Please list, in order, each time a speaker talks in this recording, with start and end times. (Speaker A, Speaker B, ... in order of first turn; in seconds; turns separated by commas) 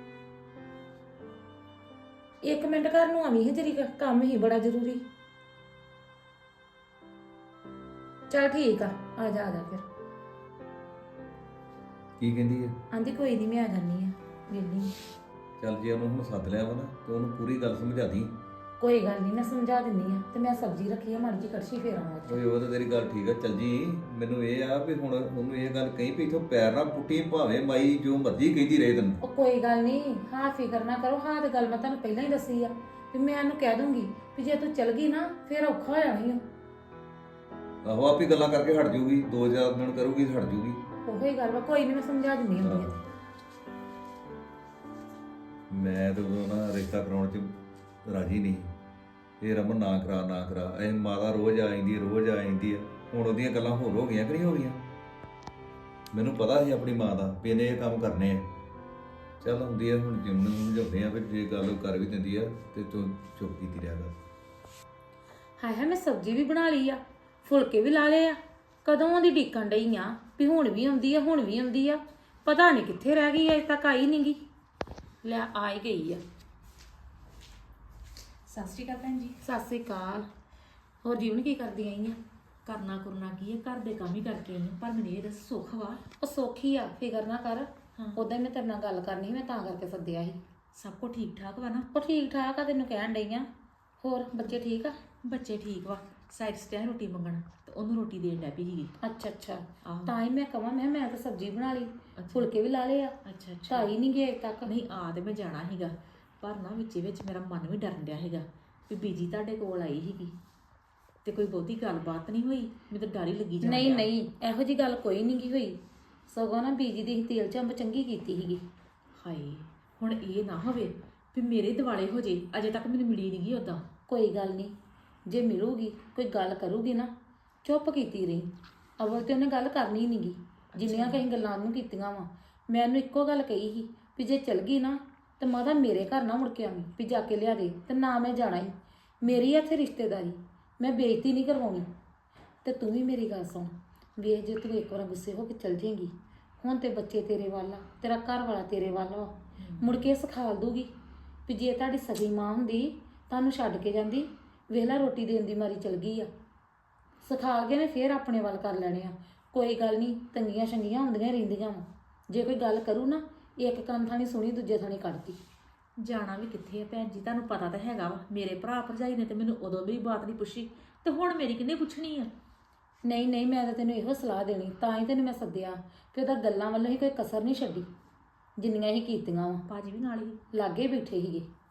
Speaker A: 2.4-5.0, Speaker A: 8.3-9.8, Speaker B: 12.2-12.7, Speaker A: 12.9-14.9, Speaker B: 15.6-18.3, Speaker A: 18.8-22.4, Speaker B: 22.3-29.2, Speaker A: 29.2-36.4, Speaker B: 37.9-40.8, Speaker A: 41.1-43.0, Speaker B: 42.6-42.9, Speaker B: 45.7-47.5, Speaker B: 48.1-48.7, Speaker B: 49.4-54.8, Speaker B: 56.1-58.5, Speaker B: 59.4-64.1, Speaker A: 65.6-74.4, Speaker A: 75.2-76.2, Speaker C: 78.5-79.4, Speaker A: 79.4-80.3, Speaker A: 81.0-82.2, Speaker C: 82.7-86.0, Speaker A: 86.2-90.4, Speaker C: 90.8-91.9, Speaker A: 91.9-93.5, Speaker A: 94.0-95.0, Speaker C: 95.3-98.9, Speaker A: 99.0-103.1, Speaker C: 99.8-100.1, Speaker C: 102.2-102.5, Speaker C: 103.2-103.9, Speaker A: 103.7-104.7, Speaker C: 104.7-110.3, Speaker C: 111.2-114.1, Speaker A: 113.6-115.8, Speaker A: 116.3-118.6, Speaker C: 119.2-123.8, Speaker A: 124.1-124.7, Speaker A: 125.3-127.1, Speaker A: 127.6-141.9, Speaker C: 130.8-131.2, Speaker A: 142.6-150.9, Speaker C: 149.6-150.0, Speaker A: 151.5-156.3, Speaker A: 157.2-165.4, Speaker C: 166.0-172.3, Speaker A: 173.0-177.9, Speaker A: 178.6-179.6, Speaker C: 179.7-180.4, Speaker A: 180.5-181.5